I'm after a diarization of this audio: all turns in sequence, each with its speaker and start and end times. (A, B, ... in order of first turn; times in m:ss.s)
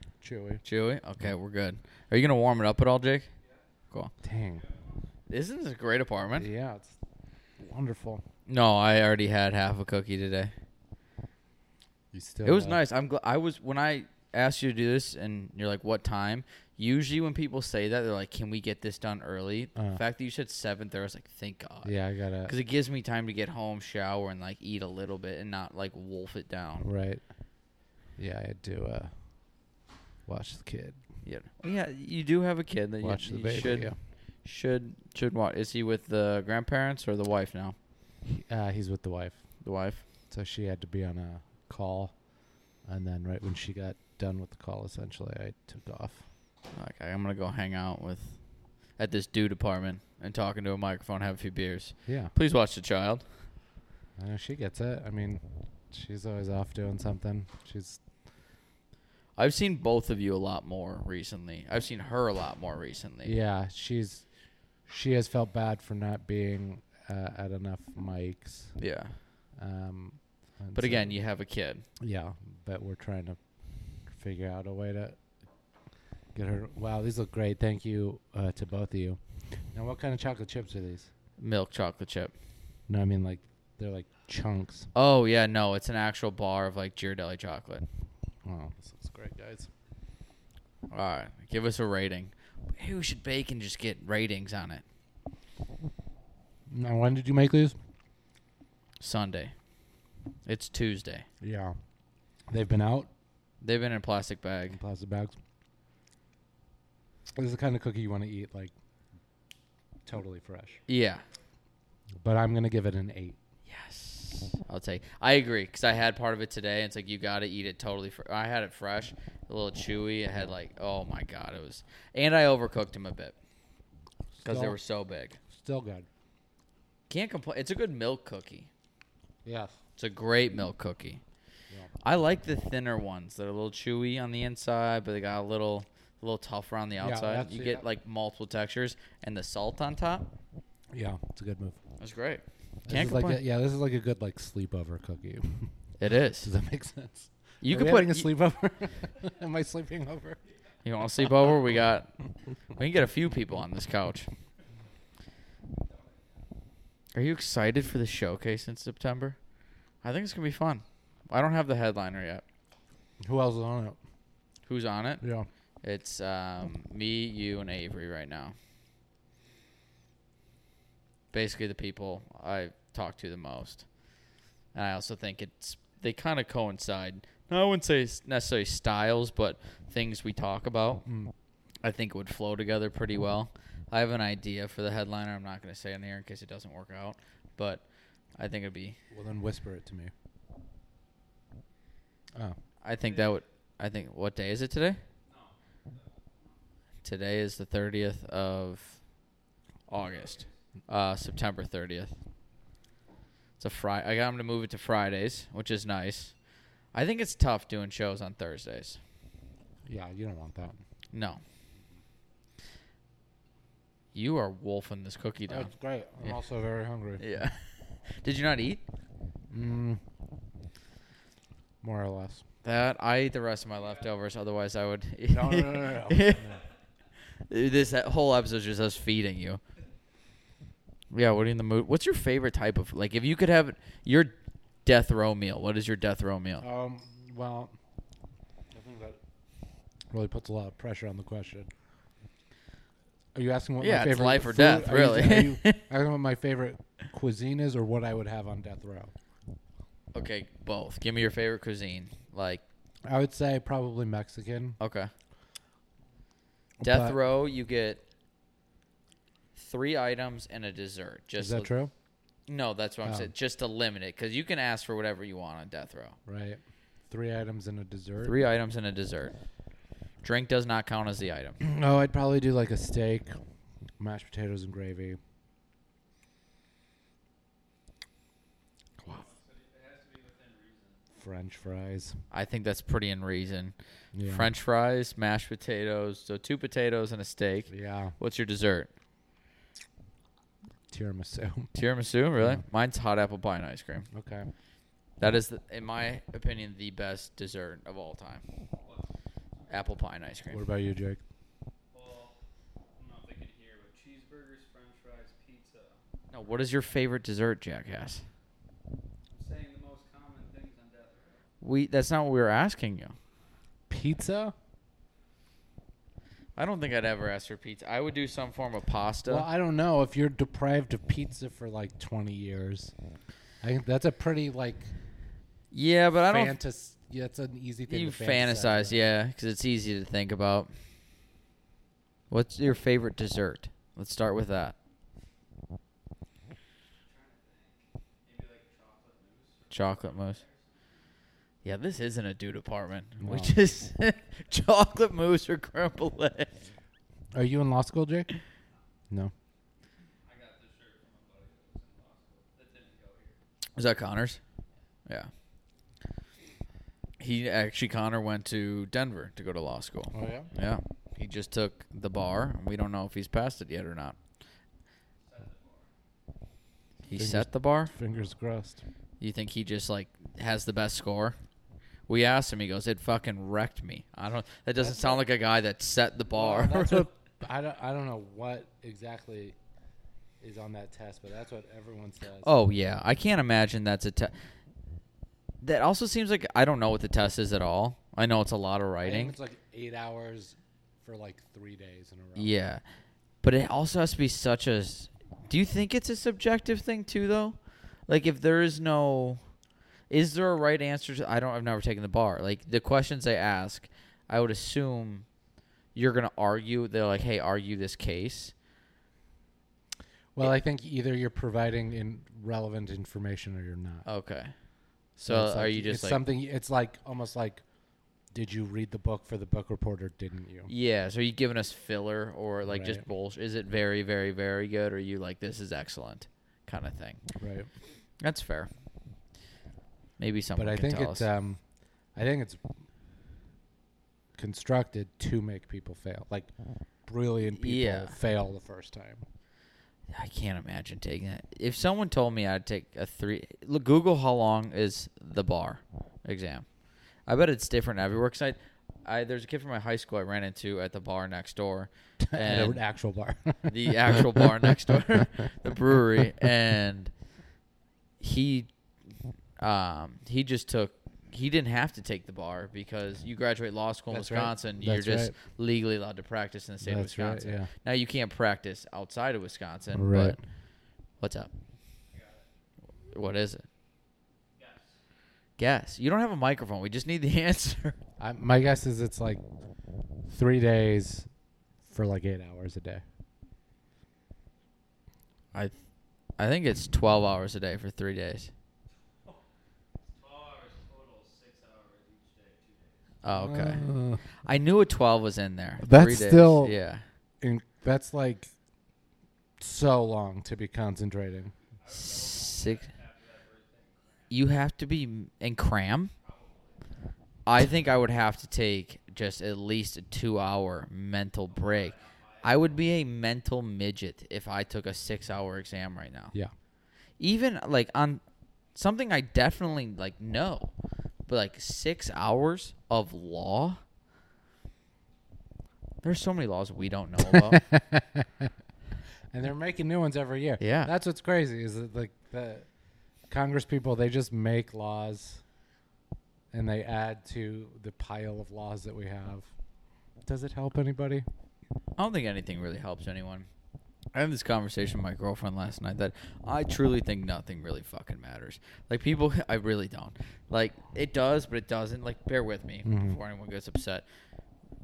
0:00.2-0:00.6 A
0:00.6-0:03.3 B
0:03.4-0:03.6 C
0:04.2-0:04.6 A
0:04.6-0:05.0 C
0:05.3-0:06.5 B
0:06.4-0:07.0 A
0:07.6-0:08.2 A
0:08.5-0:10.5 B
0:12.1-0:12.8 A
0:12.4-0:26.9 B
0:21.8-0:22.5 A
0:26.8-0:27.2 A
0:28.2-0:29.1 A
0:30.2-0:31.0 A
0:31.2-0:37.8 B
0:33.0-0:34.0 A
0:38.3-0:39.4 A
0:39.6-0:40.0 B
0:40.3-0:42.3 A
0:42.8-0:46.2 A
0:46.7-0:53.2 B
0:52.0-0:52.3 A
0:54.2-0:58.0 A
0:59.4-1:03.3 B
1:03.2-1:04.2 A
1:04.8-1:08.7 A
1:08.8-1:09.2 B
1:09.6-1:11.1 A
1:10.7-1:11.8 B
1:12.0-1:13.4 A
1:14.1-1:15.2 A
1:16.3-1:21.1 A
1:21.4-1:22.3 B
1:22.9-1:24.9 A
1:24.9-1:27.8 B
1:28.4-1:29.7 A
1:30.9-1:34.8 B
1:36.7-1:37.8 A
1:39.0-1:39.5 B
1:40.4-1:41.2 B
1:41.4-1:41.8 A
1:42.5-1:43.1 A
1:43.6-1:44.8 B
1:44.7-1:45.3 A
1:47.4-1:48.7 A
1:50.0-1:50.8 A
1:50.9-1:51.2 B
1:52.2-1:53.4 A
1:53.7-2:03.3 B
2:04.4-2:04.8 A
2:04.4-2:05.4 B
2:05.5-2:06.1 A
2:07.1-2:08.7 B
2:09.4-2:09.8 A
2:10.0-2:11.2 B
2:12.0-2:20.3 B
2:17.0-2:17.8 A
2:20.9-2:21.8 A
2:22.0-2:23.4 B
2:22.9-2:25.7 A
2:26.0-2:26.5 B
2:26.4-2:30.4 A
2:27.6-2:28.3 B
2:30.8-2:32.1 B
2:32.7-2:34.3 B
2:35.7-2:36.4 C
2:37.1-2:39.4 B
2:40.0-2:42.4 B
2:43.2-2:44.0 A
2:44.7-2:45.2 B
2:45.2-2:45.5 A
2:45.8-2:48.5 B
2:51.3-2:53.8 B
2:54.7-3:01.0 B
3:01.0-3:01.3 A
3:01.8-3:07.8 B
3:08.4-3:09.0 B
3:09.1-3:10.1 A
3:12.8-3:15.0 B
3:13.0-3:13.4 C
3:15.2-3:16.6 C
3:17.0-3:19.0 B
3:19.9-3:22.1 B
3:19.9-3:20.6 C
3:23.6-3:26.3 B
3:26.9-3:29.0 B
3:29.8-3:30.8 A
3:31.1-3:31.4 B
3:34.1-3:35.7 B
3:35.5-3:37.4 A
3:37.2-3:38.8 B
3:39.5-3:40.0 A
3:41.8-3:42.4 A
3:42.6-3:46.5 B
3:45.3-3:46.6 A
3:47.5-3:49.6 B
3:51.1-3:56.6 B
3:56.6-3:57.7 A
3:58.7-3:59.2 A
4:00.1-4:01.7 A
4:03.3-4:09.1 A
4:03.8-4:05.8 B
4:10.1-4:12.6 B
4:13.0-4:14.8 A
4:14.8-4:15.1 B
4:16.8-4:17.2 A
4:16.8-4:18.0 B
4:19.5-4:21.7 B
4:21.4-4:21.9 A
4:22.5-4:26.2 B
4:23.0-4:23.3 A
4:26.2-4:28.4 A
4:28.2-4:29.4 B
4:30.2-4:31.6 B
4:31.6-4:33.4 A
4:34.0-4:35.2 A
4:39.0-4:41.0 C
4:41.2-4:42.2 A
4:42.3-4:48.9 B
4:44.1-4:44.5 A
4:47.7-4:48.2 A
4:50.9-4:51.7 A
4:51.7-4:54.1 B
4:54.1-4:54.5 A
4:55.2-4:58.4 B
4:58.8-4:59.8 C
4:59.7-5:00.6 B
5:00.5-5:01.2 A
5:01.9-5:02.4 C
5:03.0-5:06.0 C
5:06.3-5:08.2 B
5:09.3-5:11.4 C
5:11.6-5:13.2 B
5:13.9-5:14.5 A
5:16.6-5:19.4 B
5:19.3-5:22.9 A
5:23.6-5:24.9 A
5:25.7-5:26.6 B
5:26.3-5:29.1 A
5:27.9-5:30.7 B
5:32.3-5:34.8 B
5:37.0-5:40.8 C
5:39.7-5:40.4 B
5:41.6-5:46.5 B
5:43.2-5:43.6 A
5:47.3-5:48.3 A
5:50.2-5:53.4 C
5:53.8-5:54.4 B
5:57.2-6:04.2 B
6:00.1-6:00.5 A
6:05.2-6:05.9 C
6:07.1-6:07.9 B
6:07.2-6:08.8 A
6:09.2-6:11.4 B
6:12.1-6:17.1 B
6:14.8-6:15.2 A
6:16.3-6:19.6 A
6:20.4-6:22.5 A
6:22.4-6:24.3 B
6:25.6-6:29.3 B
6:29.0-6:32.5 A
6:32.4-6:32.8 B
6:33.4-6:39.4 B
6:40.1-6:45.2 B
6:45.9-6:48.5 B
6:50.3-6:54.0 A
6:54.0-6:54.5 B
6:55.2-6:56.2 B
6:55.2-6:57.6 A
6:58.3-7:00.7 A
7:00.7-7:07.2 B
7:02.7-7:03.0 A
7:07.4-7:07.7 A
7:08.2-7:08.7 B
7:10.2-7:11.2 B
7:10.6-7:11.6 A
7:12.1-7:12.6 A
7:14.4-7:16.5 A
7:17.0-7:19.2 A
7:17.5-7:18.2 B
7:20.1-7:26.6 B
7:27.2-7:32.8 B
7:32.2-7:35.3 A
7:33.7-7:37.1 B
7:38.2-7:38.7 B
7:39.6-7:50.4 B
7:44.1-7:45.3 A
7:46.8-7:47.7 A
7:49.9-7:50.4 A
7:51.2-7:51.5 B
7:52.1-7:52.5 C
7:53.1-7:53.6 B
7:54.5-7:55.0 C
7:55.6-7:58.0 B
7:58.2-7:59.4 A
8:00.3-8:01.3 A
8:01.9-8:03.0 A
8:06.4-8:08.5 B
8:10.1-8:13.2 C
8:13.2-8:13.8 B
8:13.3-8:14.2 A
8:14.4-8:17.0 B
8:15.8-8:16.8 A
8:17.4-8:18.5 A
8:19.6-8:21.5 A
8:21.8-8:24.5 C
8:21.9-8:22.9 B
8:24.3-8:26.1 B
8:26.1-8:26.8 C
8:27.4-8:36.3 B
8:31.5-8:32.7 C
8:37.2-8:38.2 B
8:38.7-8:40.7 B
8:41.3-8:43.8 B
8:46.0-8:47.6 B
8:47.3-8:48.5 A
8:49.3-8:52.7 A
8:50.6-8:50.9 B
8:53.3-8:55.4 A
8:56.5-8:59.5 A
9:00.2-9:01.2 A
9:02.0-9:03.5 B
9:04.1-9:14.0 B
9:12.8-9:13.2 A